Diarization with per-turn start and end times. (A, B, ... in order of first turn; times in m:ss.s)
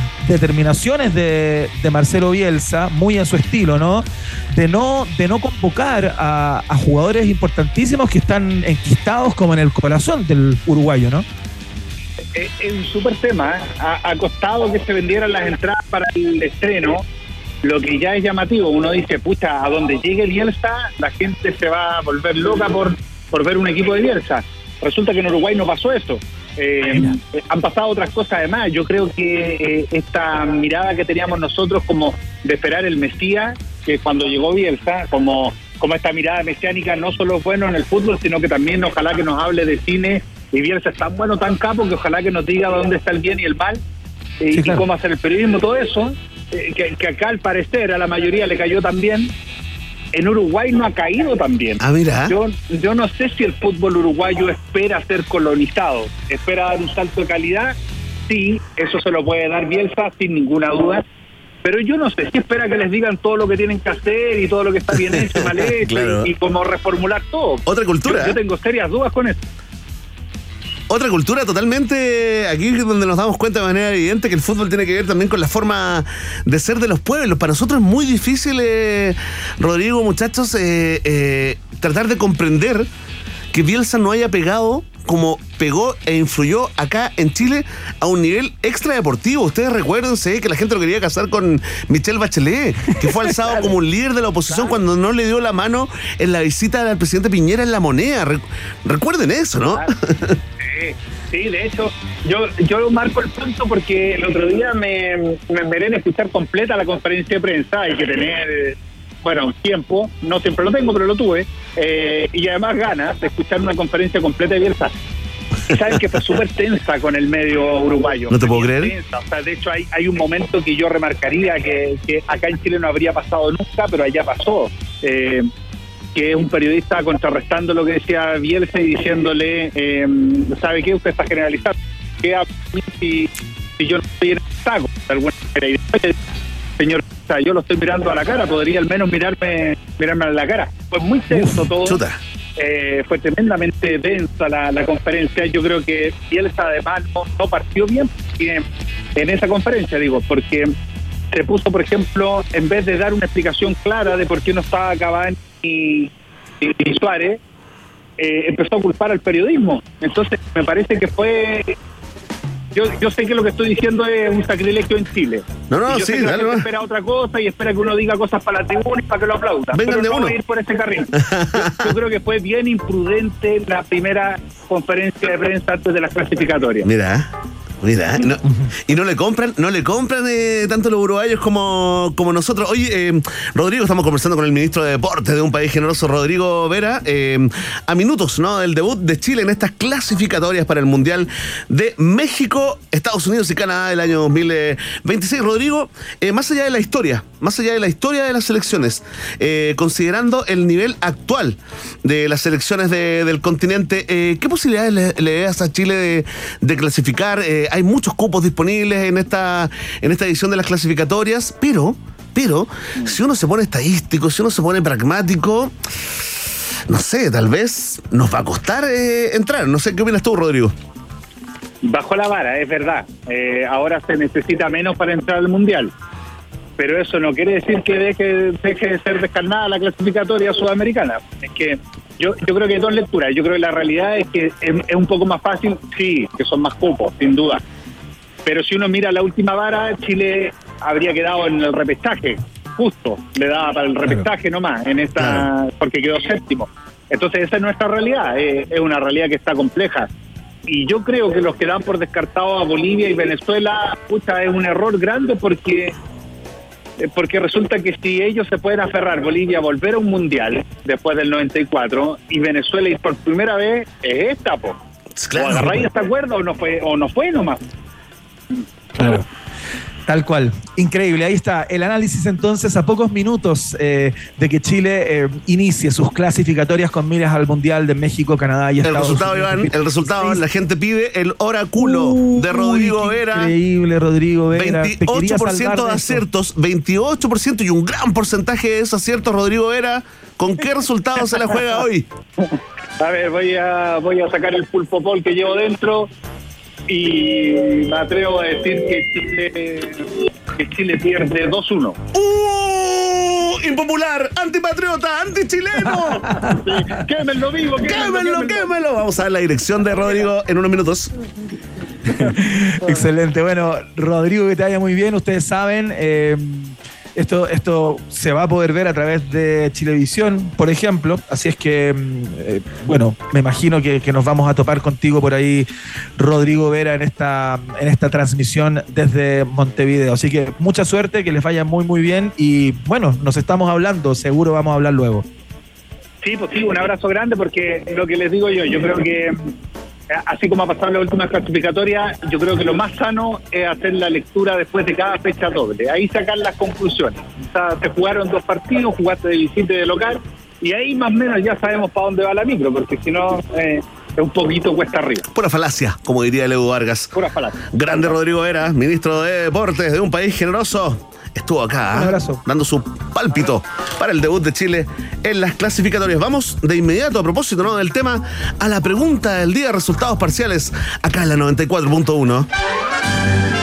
0:00.2-0:11.2 A
0:12.3-0:17.0 B
0:17.6-0:43.8 B
0:44.4-0:49.3 B
0:44.5-0:44.8 A
0:50.1-0:57.7 B
0:51.8-0:52.4 C
0:58.3-1:01.0 B
1:01.6-1:09.4 B
1:05.3-1:06.3 C
1:07.6-1:08.4 C
1:10.9-1:22.9 C
1:23.5-1:40.3 C
1:40.6-1:54.9 B
1:55.7-2:05.5 B
1:58.3-1:58.9 C
2:06.1-2:16.1 B
2:16.8-2:22.0 B
2:21.3-2:21.6 A
2:21.8-2:22.2 C
2:22.6-2:28.6 B
2:29.2-2:30.7 B
2:31.3-2:37.4 B
2:38.2-2:41.7 B
2:42.7-2:56.9 B
2:45.7-2:46.7 C
2:49.7-2:50.4 C
2:51.2-2:51.9 C
2:56.8-2:57.3 C
2:57.8-3:35.7 C
3:36.9-3:40.7 C
3:41.8-3:45.9 B
3:46.8-3:57.6 B
3:58.4-4:10.1 B
4:05.2-4:05.5 C
4:10.7-4:15.9 B
4:17.0-4:24.8 B
4:25.2-4:25.9 C
4:25.3-4:27.6 B
4:29.0-4:29.2 A
4:30.1-4:40.4 A
4:38.8-4:43.5 C
4:41.8-4:46.2 A
4:44.5-4:52.0 C
4:52.4-4:56.1 B
4:56.9-5:02.0 B
5:02.1-5:06.4 C
5:06.0-5:06.6 A
5:06.4-5:08.7 B
5:07.8-5:11.1 C
5:12.1-5:25.7 A
5:26.2-5:35.2 A
5:36.2-5:39.4 B
5:40.1-5:55.2 B
5:55.3-5:57.1 C
5:57.1-5:57.6 B
5:57.7-6:12.5 C
6:01.9-6:02.4 A